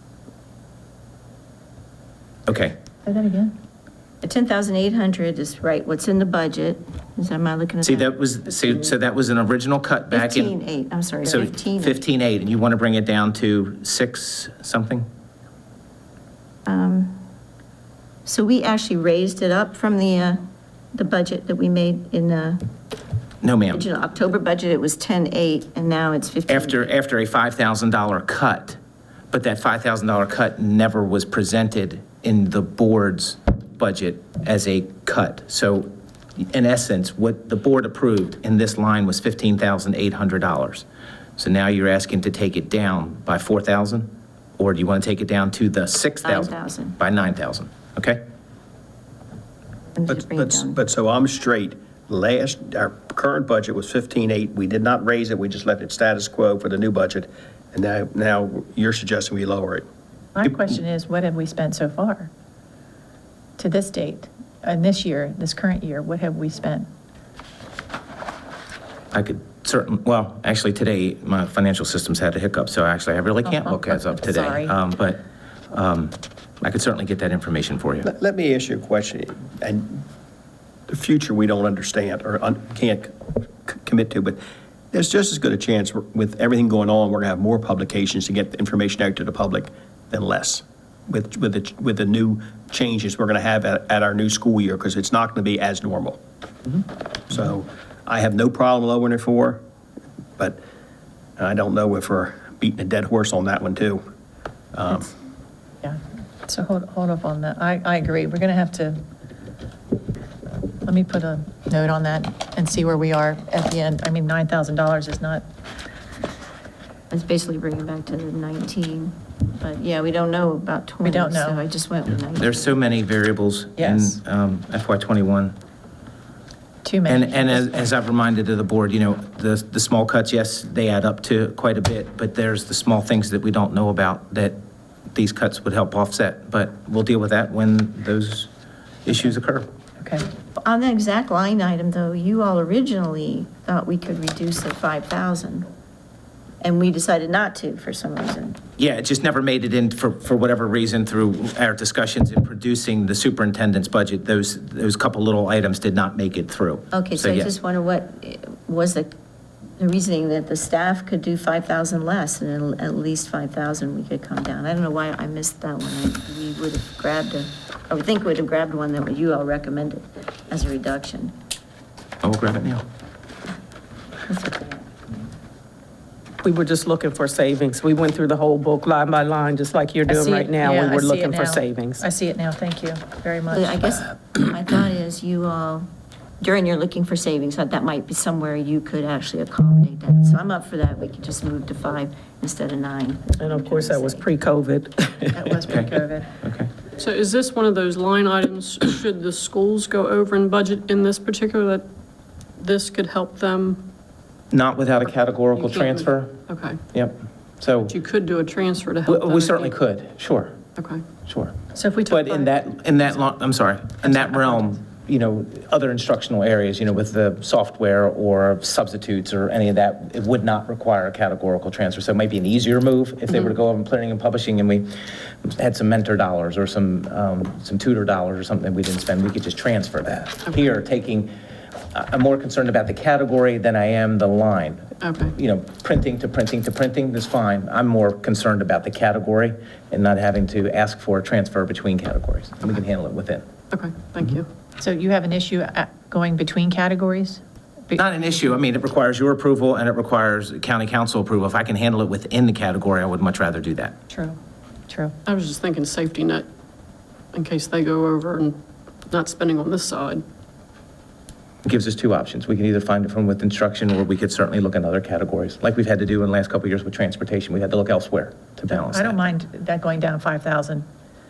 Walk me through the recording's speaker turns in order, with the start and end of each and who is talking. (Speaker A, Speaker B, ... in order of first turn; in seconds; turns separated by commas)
Speaker A: 2.5-2.8, Speaker B: 3.0-3.5, Speaker C: 4.2-8.1, Speaker A: 7.8-10.5, Speaker C: 10.1-12.0, Speaker A: 11.2-15.1, Speaker C: 16.7-17.2, Speaker C: 18.2-20.4, Speaker C: 20.9-22.7, Speaker A: 23.4-23.9, Speaker C: 23.7-26.9, Speaker A: 26.5-28.8, Speaker A: 29.3-40.9, Speaker A: 41.4-48.2, Speaker C: 46.2-47.0, Speaker C: 50.0-50.8, Speaker D: 50.1-59.9, Speaker B: 60.4-62.3, Speaker B: 63.6-66.9, Speaker A: 69.1-75.2, Speaker B: 73.4-74.8, Speaker A: 75.7-78.1, Speaker D: 78.0-80.0, Speaker D: 80.9-83.2, Speaker D: 83.7-84.4, Speaker D: 84.9-96.2, Speaker D: 97.3-99.6, Speaker D: 101.4-104.0, Speaker D: 104.7-105.1, Speaker B: 105.8-109.0, Speaker B: 110.8-115.4, Speaker C: 117.1-122.8, Speaker B: 121.0-121.7, Speaker A: 122.3-125.6, Speaker B: 123.8-124.2, Speaker B: 126.8-127.9, Speaker A: 127.1-134.6, Speaker A: 135.1-138.5, Speaker A: 139.1-139.7, Speaker B: 140.0-140.3, Speaker C: 140.6-145.7, Speaker C: 146.6-148.6, Speaker A: 148.8-157.5, Speaker C: 156.9-159.1, Speaker C: 159.8-171.3, Speaker A: 172.2-172.8, Speaker C: 174.3-174.8, Speaker E: 176.4-182.1, Speaker B: 180.1-184.0, Speaker C: 183.5-185.9, Speaker C: 186.4-194.3, Speaker E: 193.4-195.6, Speaker B: 195.3-196.3, Speaker A: 195.7-196.7, Speaker F: 197.0-201.9, Speaker F: 202.6-203.9, Speaker A: 204.5-207.9, Speaker F: 205.6-206.8, Speaker F: 207.8-209.8, Speaker A: 209.1-210.6, Speaker F: 210.8-211.0, Speaker A: 211.3-231.3, Speaker B: 211.7-213.3, Speaker B: 214.0-214.8, Speaker A: 231.9-243.4, Speaker F: 235.0-235.3, Speaker F: 243.7-244.5, Speaker B: 244.8-248.0, Speaker A: 247.9-254.0, Speaker B: 254.1-254.4, Speaker B: 254.9-255.2, Speaker F: 255.3-256.5, Speaker F: 257.3-258.6, Speaker F: 259.1-260.2, Speaker A: 261.6-269.3, Speaker B: 268.7-270.9